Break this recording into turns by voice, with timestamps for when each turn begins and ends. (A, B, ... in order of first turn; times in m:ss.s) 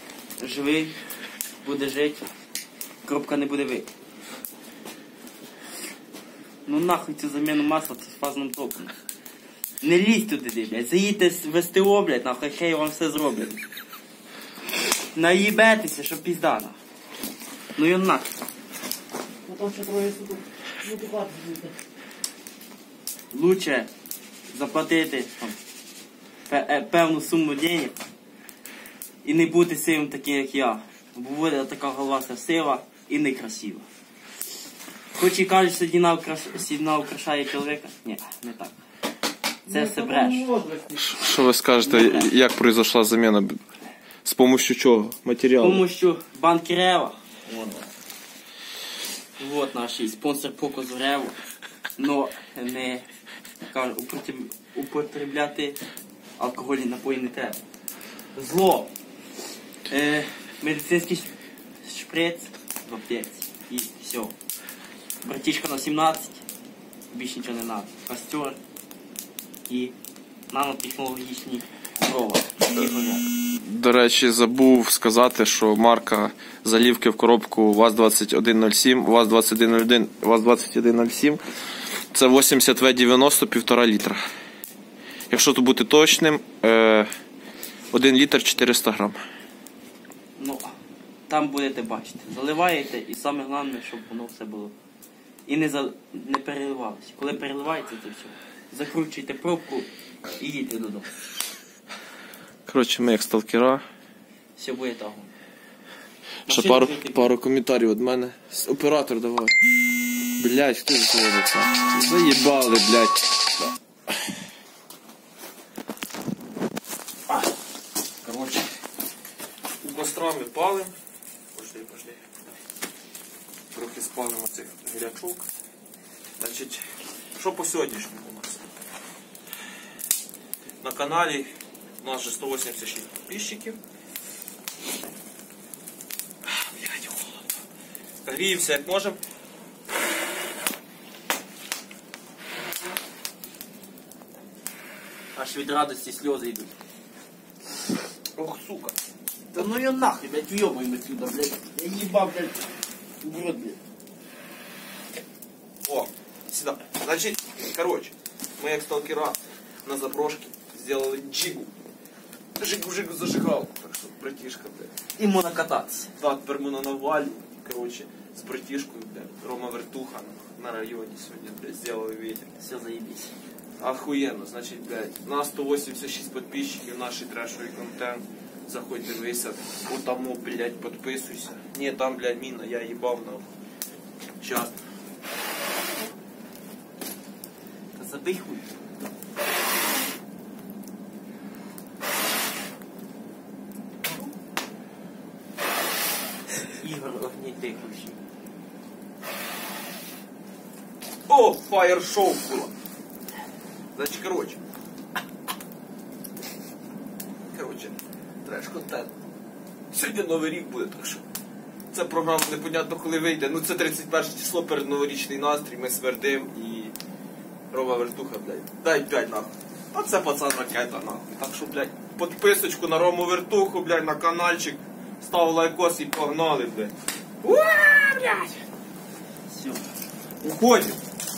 0:00.4-0:01.0 A
0:01.6-0:02.3 A
0:03.0-0:03.9 A
0:06.7-0:08.9 A
0:09.8-0:13.6 A
0:15.1-0:16.8 A
0:17.8-0:18.3 A
0:19.5-0:21.8 B
0:23.3-0:23.9 A
0:24.5-0:25.6 A
0:26.5-0:28.0 A
0:29.2-0:33.9 A
0:35.2-0:38.8 A
0:39.7-0:41.1 B
0:39.7-0:40.5 A
0:40.9-0:43.6 C
0:41.8-0:42.3 A
0:44.2-0:45.8 C
0:45.6-0:47.4 A
0:49.4-0:51.4 A
0:52.0-0:53.1 A
0:53.7-0:55.8 A
0:56.4-0:57.6 A
0:58.4-0:58.9 A
0:59.9-1:01.3 A
1:01.8-1:04.4 A
1:05.2-1:06.4 A
1:07.1-1:08.6 A
1:09.7-1:09.9 A
1:10.5-1:13.2 A
1:13.5-1:21.4 C
1:22.1-1:24.2 C
1:25.3-1:27.1 C
1:27.9-1:29.2 C
1:30.4-1:30.7 A
1:31.3-1:34.8 A
1:35.5-1:41.1 A
1:42.7-1:43.8 C
1:44.6-1:45.3 A
1:46.5-1:47.3 A
1:46.5-1:49.6 C
1:50.4-1:53.7 C
1:58.2-1:58.7 C
1:59.8-2:00.9 C
2:01.5-2:02.4 C
2:03.7-2:05.5 C
2:06.4-2:06.8 C
2:07.4-2:08.6 C
2:10.8-2:13.8 C
2:16.5-2:17.4 C
2:18.2-2:19.2 C
2:25.4-2:26.7 A
2:28.4-2:29.0 C
2:29.5-2:33.8 A
2:35.8-2:41.7 C
2:42.6-2:44.9 C
2:45.2-2:46.1 A
2:46.2-2:52.5 C
2:52.6-2:53.3 A
2:53.8-3:03.5 C
3:04.4-3:04.8 C
3:08.0-3:08.7 A
3:16.8-3:18.2 A
3:21.3-3:22.7 C
3:24.0-3:24.6 C
3:27.5-3:29.1 C
3:29.9-3:31.2 C
3:31.9-3:37.0 C
3:37.7-3:48.6 C
3:49.5-3:49.9 A
3:50.4-3:51.0 C